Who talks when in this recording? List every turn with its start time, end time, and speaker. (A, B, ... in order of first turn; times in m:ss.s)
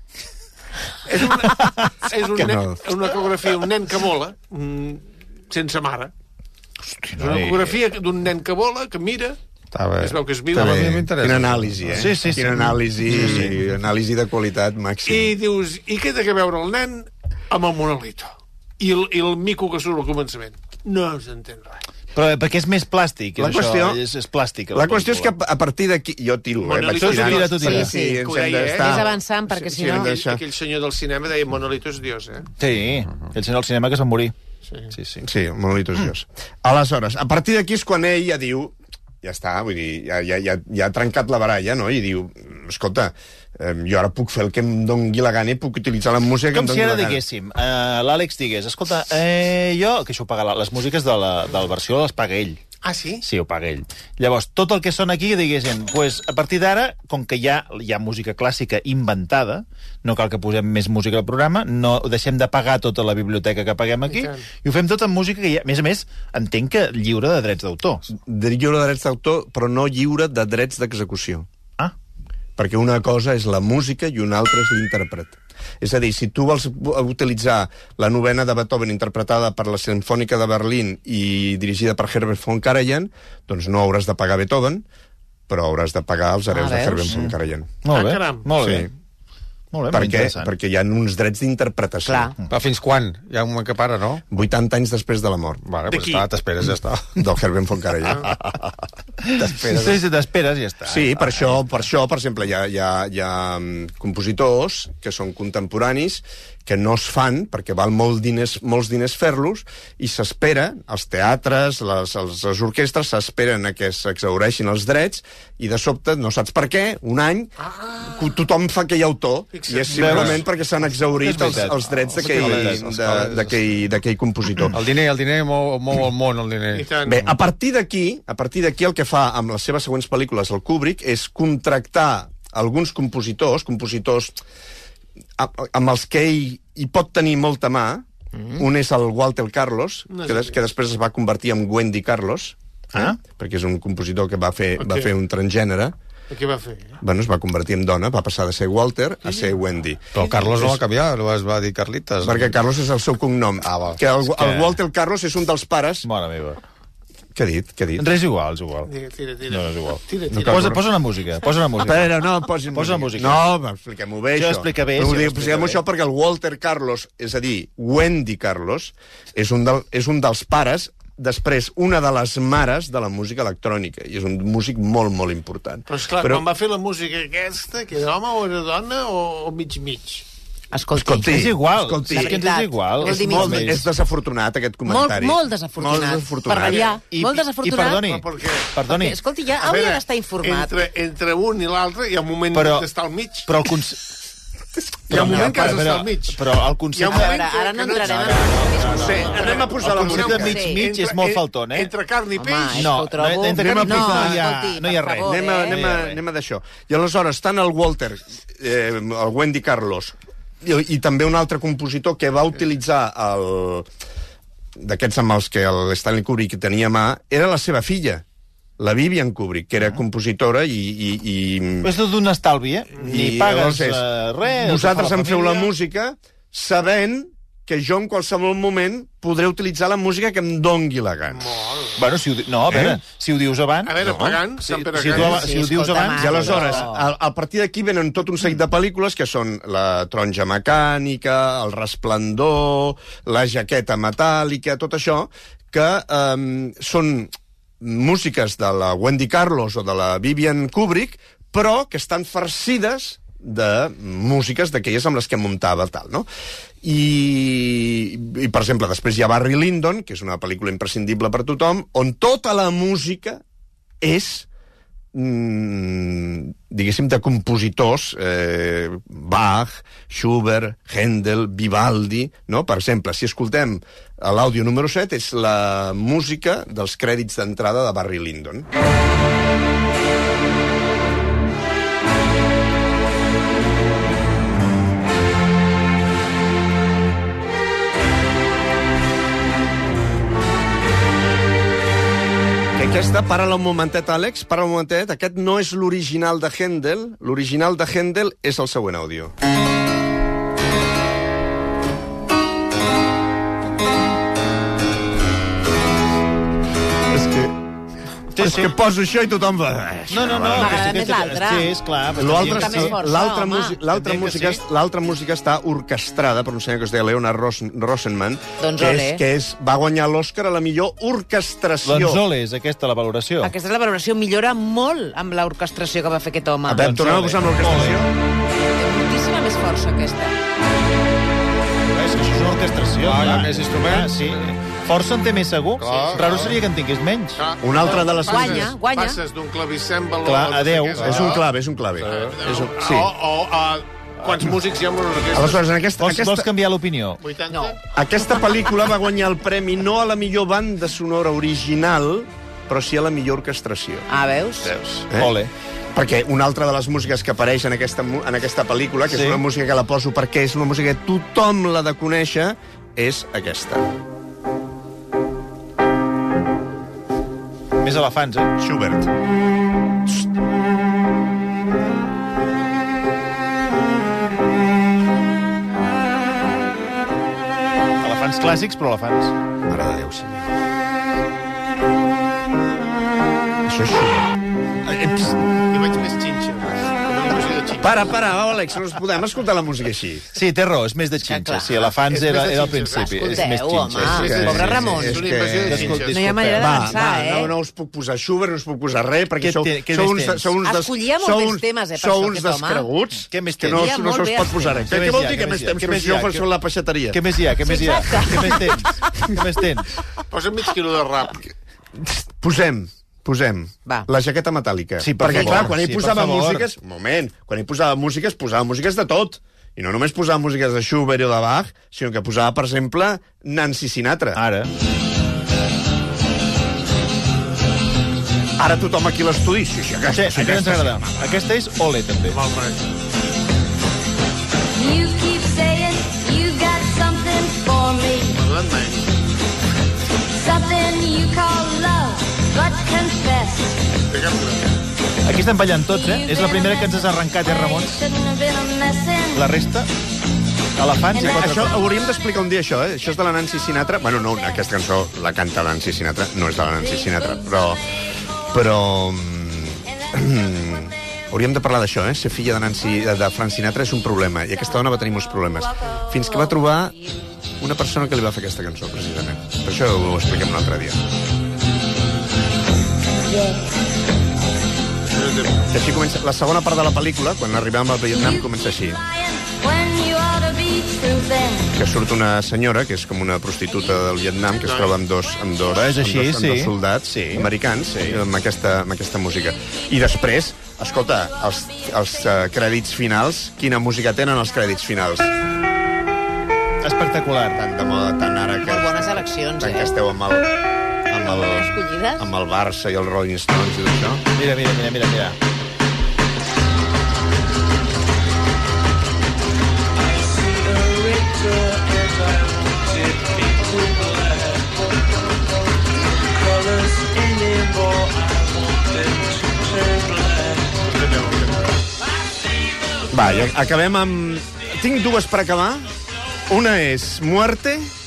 0:01.1-0:06.1 A
0:02.4-0:02.8 B
0:06.9-0:07.7 C
0:07.2-0:09.4 A
0:09.7-0:12.0 D
0:10.0-0:10.9 A
0:10.5-0:15.4 B
0:11.9-0:13.5 C
0:15.0-0:21.8 A
0:22.2-0:25.3 C
0:23.4-0:24.0 B
0:24.7-0:30.4 B
0:26.6-0:29.2 A
0:27.0-0:27.9 C
0:27.6-0:30.1 E
0:29.7-0:32.5 A
0:32.6-0:34.3 C
0:34.7-0:34.9 A
0:35.2-0:47.2 B
0:46.5-0:52.6 C
0:52.8-0:53.2 A
0:53.2-1:08.1 C
1:04.1-1:04.4 A
1:08.1-1:11.5 B
1:12.6-1:24.8 B
1:25.5-1:27.8 B
1:26.5-1:27.2 E
1:27.8-1:28.9 C
1:27.9-1:28.5 A
1:28.6-1:28.9 B
1:29.7-1:30.5 C
1:29.9-1:32.3 B
1:32.1-1:32.4 E
1:32.5-1:34.2 D
1:34.3-1:35.6 B
1:35.6-1:37.2 D
1:35.9-1:36.2 A
1:37.2-1:38.7 B
1:39.2-1:41.6 C
1:39.4-1:40.0 B
1:40.9-2:04.8 B
1:57.6-1:58.2 A
1:59.5-2:00.5 A
1:59.9-2:00.4 C
2:01.2-2:03.0 C
2:02.1-2:03.8 D
2:04.7-2:06.9 D
2:06.7-2:07.3 A
2:07.1-2:14.4 B
2:15.4-2:26.0 B
2:20.1-2:20.6 A
2:24.8-2:25.1 A
2:26.3-2:27.0 A
2:27.0-2:30.7 B
2:30.1-2:32.5 D
2:32.2-2:36.1 B
2:34.2-2:34.8 C
2:36.0-2:36.6 C
2:37.4-2:38.1 B
2:38.0-2:38.9 C
2:38.9-2:40.8 A
2:39.5-2:43.5 C
2:40.3-2:40.8 B
2:41.8-2:56.4 B
2:44.4-2:45.8 C
2:55.9-3:00.3 A
3:00.7-3:01.4 E
3:00.9-3:06.9 B
3:01.3-3:03.9 C
3:02.1-3:03.8 E
3:04.9-3:08.1 E
3:06.6-3:07.0 A
3:07.1-3:09.2 C
3:08.0-3:08.8 A
3:08.9-3:10.8 E
3:09.5-3:13.5 A
3:12.5-3:12.9 C
3:13.4-3:14.0 C
3:15.1-3:15.9 B
3:15.1-3:17.4 C
3:15.1-3:16.4 A
3:17.0-3:22.9 A
3:17.1-3:19.5 E
3:18.0-3:21.9 C
3:18.9-3:20.6 B
3:20.3-3:20.8 E
3:22.4-3:25.8 E
3:22.7-3:26.2 C
3:23.6-3:24.5 B
3:25.2-3:33.9 B
3:34.8-3:38.2 B
3:38.8-3:41.9 B
3:41.8-3:45.7 C
3:43.0-3:51.6 B
3:51.3-3:52.0 A
3:52.0-3:56.8 C
3:52.7-3:53.0 B
3:53.8-3:55.8 A
3:54.0-3:54.4 B
3:55.1-3:57.1 E
3:56.1-4:16.3 B
4:16.8-4:23.4 B
4:24.0-4:24.5 B
4:25.1-4:38.7 B
4:52.8-4:59.3 B
5:07.1-5:07.6 B
5:08.3-5:08.7 C
5:08.4-5:11.0 B
5:10.1-5:13.0 C
5:10.5-5:11.7 E
5:12.2-5:22.2 B
5:12.3-5:13.8 E
5:13.9-5:14.6 C
5:18.6-5:19.2 E
5:21.8-5:23.5 C
5:23.4-5:26.9 E
5:26.7-5:28.1 B
5:26.7-5:28.0 C
5:28.7-5:30.4 E
5:31.9-5:37.4 C
5:33.0-5:34.6 D
5:35.8-5:36.6 D
5:35.8-5:36.5 A
5:37.4-5:41.4 A
5:37.6-5:38.7 B
5:37.8-5:39.2 E
5:40.2-5:41.2 C
5:41.0-5:43.1 B
5:42.0-5:45.6 A
5:42.0-5:42.4 D
5:45.3-5:46.5 B
5:46.0-5:47.2 C
5:47.2-5:47.8 A
5:47.5-5:47.8 E
5:47.9-5:54.1 B
5:54.1-5:54.8 E
5:54.6-5:55.5 C
5:55.9-6:03.9 B
5:59.1-5:59.4 C
6:07.8-6:08.5 C
6:08.6-6:09.1 B
6:18.0-6:19.4 C
6:19.7-6:20.4 B
6:23.7-6:24.3 B
6:24.9-6:25.4 B
6:25.7-6:28.2 A
6:27.8-6:30.3 B
6:30.3-6:37.4 C
6:31.2-6:32.0 E
6:32.0-6:36.2 A
6:33.0-6:35.3 E
6:33.9-6:47.2 B
6:36.0-6:37.5 E
6:39.4-6:40.5 C
6:40.6-6:42.9 E
6:43.3-6:43.9 C
6:43.7-6:44.9 E
6:44.9-6:46.5 C
6:47.1-6:50.0 C
6:47.6-6:48.8 E
6:50.3-6:51.4 A
6:52.0-7:04.4 B
6:55.0-6:56.7 C
6:55.3-6:55.6 E
7:04.4-7:04.7 C
7:08.6-7:11.1 B
7:10.1-7:12.4 C
7:12.3-7:12.9 A
7:14.8-7:18.4 F
7:18.3-7:19.1 A
7:20.3-7:23.9 F
7:24.1-7:24.7 A
7:25.2-7:28.0 C
7:25.7-7:29.5 F
7:29.3-7:29.9 C
7:30.8-7:31.8 C
7:31.2-7:31.6 F
7:31.2-7:37.8 B
7:34.2-7:34.7 F
7:36.7-7:38.0 F
7:38.5-7:47.0 B
7:39.9-7:40.4 F
7:44.7-7:47.2 F
7:47.6-7:51.0 B
7:53.2-7:53.7 F
7:55.1-7:55.7 A
7:55.7-7:59.0 B
7:58.1-8:01.8 F
8:01.8-8:15.3 B
8:03.7-8:04.0 F
8:04.6-8:05.0 A
8:05.7-8:08.3 C
8:11.0-8:12.5 F
8:16.8-8:17.6 C
8:17.5-8:20.5 B
8:18.6-8:19.9 E
8:21.1-8:24.2 B
8:21.2-8:22.3 E
8:24.4-8:25.4 C
8:30.2-8:34.6 C
8:36.6-8:38.1 C
8:40.7-8:41.6 A
8:43.1-8:45.9 B
8:46.5-8:47.9 B